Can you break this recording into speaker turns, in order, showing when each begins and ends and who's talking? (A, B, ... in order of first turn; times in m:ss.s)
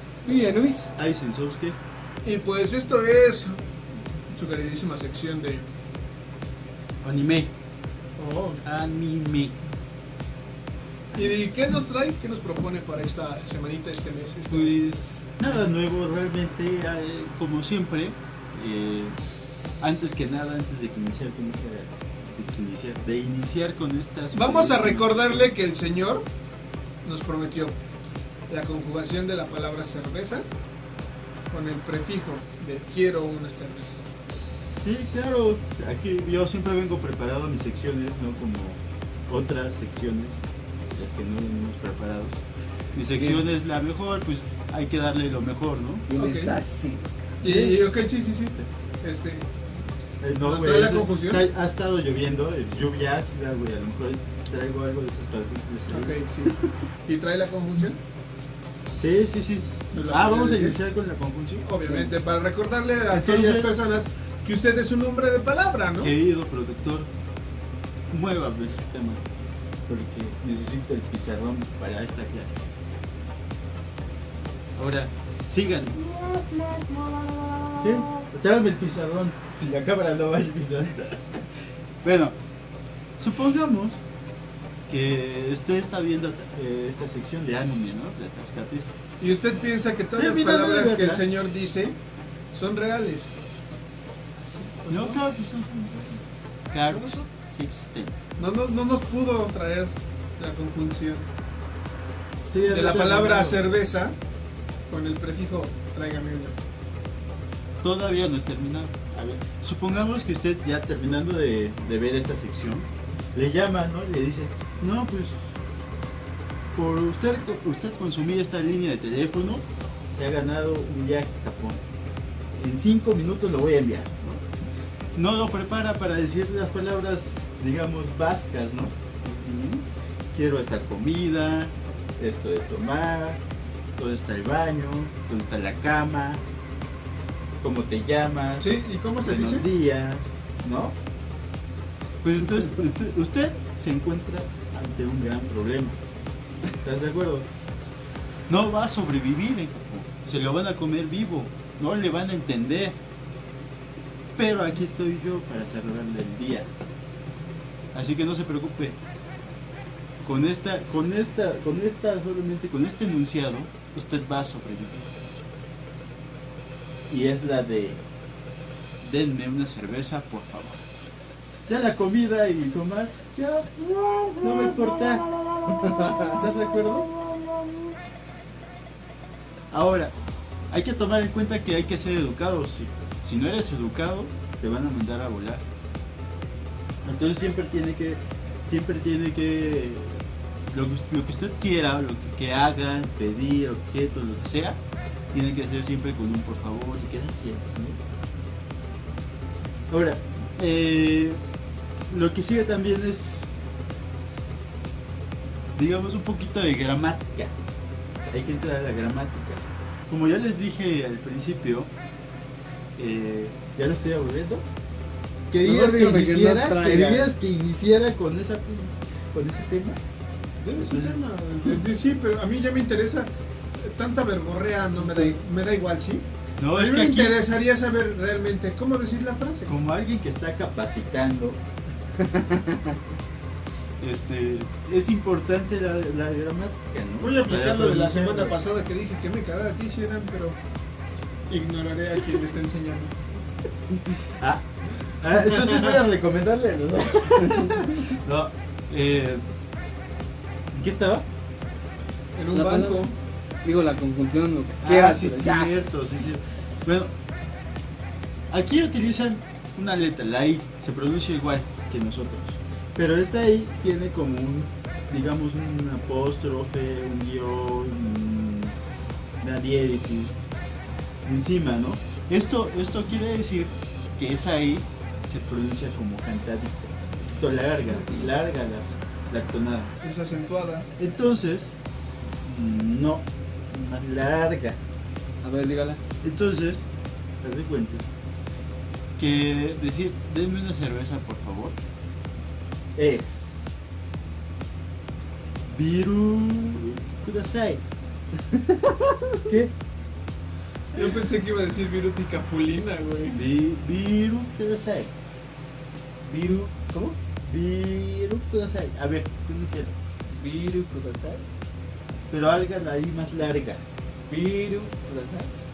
0:00.2-0:00.9 A
0:01.0-0:01.8 B
0:02.2-0:03.6 C
0:04.3-0:05.7 C
0:07.0-0:07.5 B
0:08.2-0:08.6 C
0:08.6-0:09.6 B
0:11.1-0:11.4 B
0:11.1-0:14.8 C
0:14.5-0:19.2 B
0:19.8-0:25.5 B
0:24.3-0:26.2 C
0:27.0-0:27.8 C
0:28.5-0:30.4 C
0:31.5-0:34.0 C
0:34.8-0:42.4 B
0:42.9-0:46.1 B
0:46.1-0:47.8 A
0:46.1-0:46.6 C
0:47.4-0:49.5 C
0:50.2-0:56.2 B
0:50.4-0:51.4 C
0:55.9-0:56.5 C
0:57.0-0:58.0 C
0:58.9-1:01.6 B
0:59.9-1:00.8 C
1:01.6-1:06.1 C
1:01.8-1:02.1 A
1:03.1-1:03.7 B
1:06.0-1:07.1 B
1:08.1-1:09.2 B
1:09.9-1:12.7 B
1:14.7-1:16.1 B
1:17.7-1:22.4 B
1:23.2-1:24.0 B
1:24.9-1:28.9 B
1:29.2-1:32.0 C
1:30.2-1:31.2 B
1:32.5-1:33.3 C
1:34.4-1:38.2 B
1:34.8-1:35.2 C
1:36.9-1:37.2 C
1:38.4-1:41.3 C
1:42.5-1:43.6 B
1:42.6-1:44.2 C
1:44.9-1:46.6 C
1:47.8-1:55.5 B
1:56.7-2:01.8 B
2:02.6-2:04.4 B
2:05.1-2:13.4 B
2:14.0-2:16.4 B
2:17.6-2:21.0 B
2:18.6-2:19.7 C
2:22.2-2:26.0 B
2:26.7-2:27.5 B
2:28.5-2:33.0 B
2:34.3-2:36.7 B
2:37.9-2:39.0 B
2:40.2-2:45.1 B
2:47.1-2:48.0 B
2:49.0-2:50.9 B
2:51.7-2:57.2 B
2:59.7-3:00.1 B
3:00.7-3:05.6 B
3:07.0-3:14.8 B
3:15.3-3:18.0 B
3:19.9-3:21.4 B
3:22.1-3:23.6 B
3:25.8-3:27.5 B
3:28.2-3:31.9 B
3:33.0-3:34.6 B
3:35.5-3:40.0 B
3:35.6-3:37.3 A
3:40.6-3:49.7 C
3:40.7-3:41.2 B
3:45.0-3:45.3 A
3:46.6-3:47.4 B
3:49.7-3:51.6 B
3:52.2-3:52.8 A
3:54.0-3:58.6 B
3:57.2-4:00.6 C
4:01.5-4:03.2 C
4:04.2-4:09.4 B
4:10.7-4:11.2 B
4:12.3-4:13.1 C
4:12.5-4:13.1 A
4:13.6-4:15.7 A
4:14.8-4:17.1 B
4:18.5-4:28.8 B
4:29.4-4:30.6 B
4:31.2-4:39.9 B
4:40.0-4:40.9 C
4:41.0-4:41.7 B
4:42.4-4:44.8 B
4:45.4-4:46.0 A
4:46.2-4:46.8 B
4:47.4-4:48.1 B
4:49.2-4:51.8 B
4:53.0-4:53.8 B
4:55.7-4:57.8 B
4:58.9-4:59.3 A
4:59.5-4:59.7 B
5:00.9-5:03.4 C
5:03.3-5:05.1 B
5:06.2-5:07.2 A
5:07.4-5:09.9 B
5:10.3-5:11.4 A
5:12.3-5:13.8 B
5:14.3-5:15.5 A